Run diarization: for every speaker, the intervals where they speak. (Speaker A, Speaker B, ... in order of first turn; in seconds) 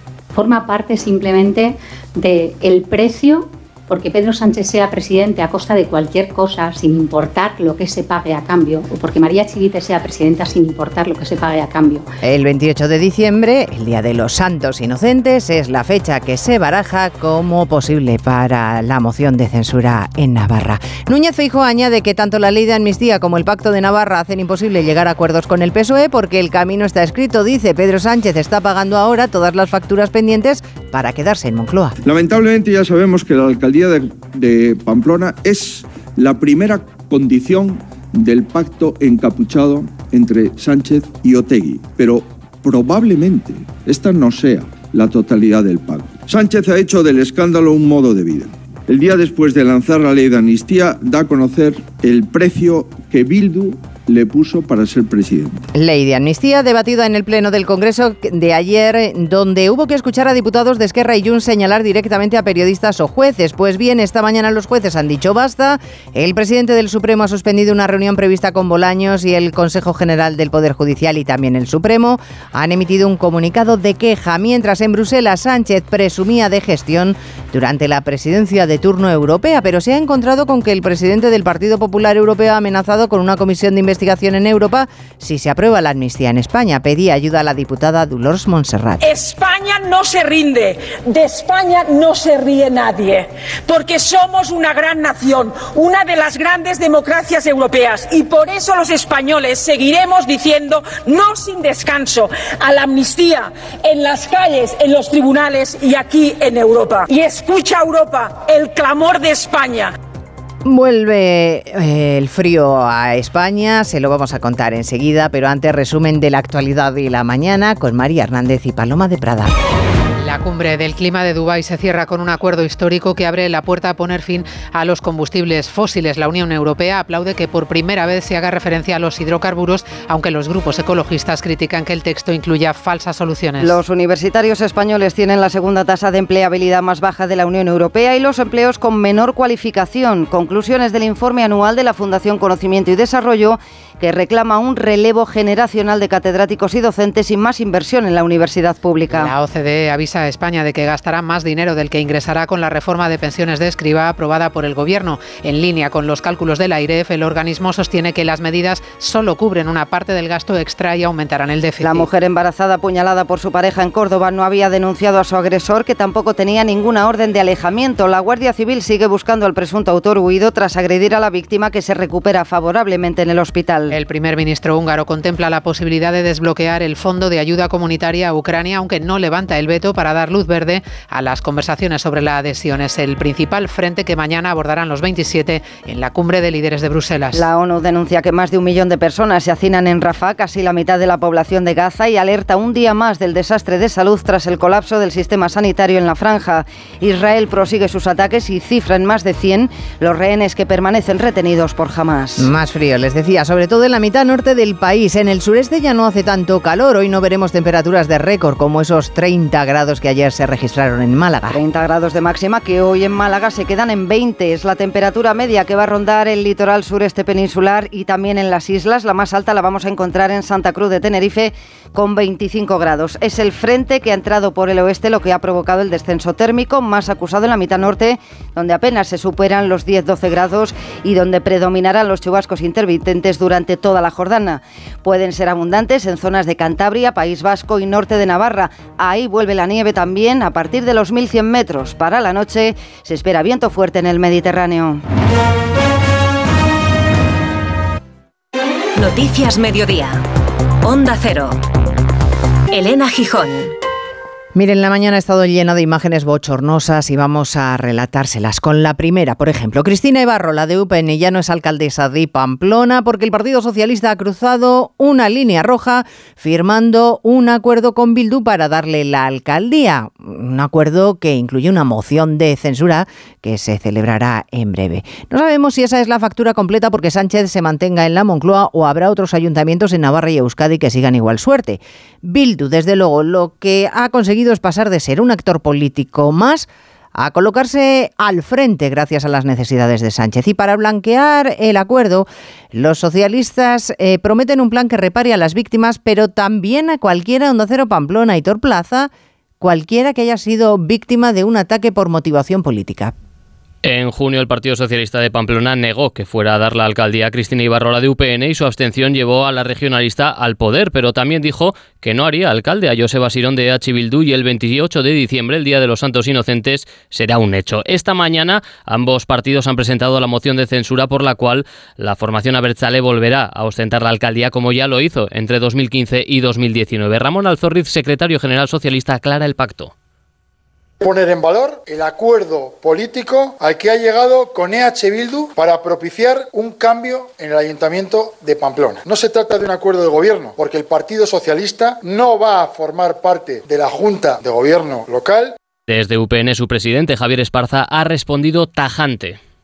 Speaker A: 0.3-12.1
Speaker B: 12.2-32.0, 55.7-89.0, 110.7-119.5, 202.4-211.6, 254.6-303.1
Speaker C: 32.0-55.6
Speaker D: 89.0-109.9
Speaker E: 120.2-133.8, 149.1-162.1, 173.9-187.4
Speaker F: 133.6-149.3, 161.8-173.9, 187.3-202.5, 211.5-245.0
Speaker G: 249.0-250.2, 250.8-251.6, 252.7-253.7
Speaker H: 303.8-329.9, 345.9-349.4
Speaker I: 331.0-345.6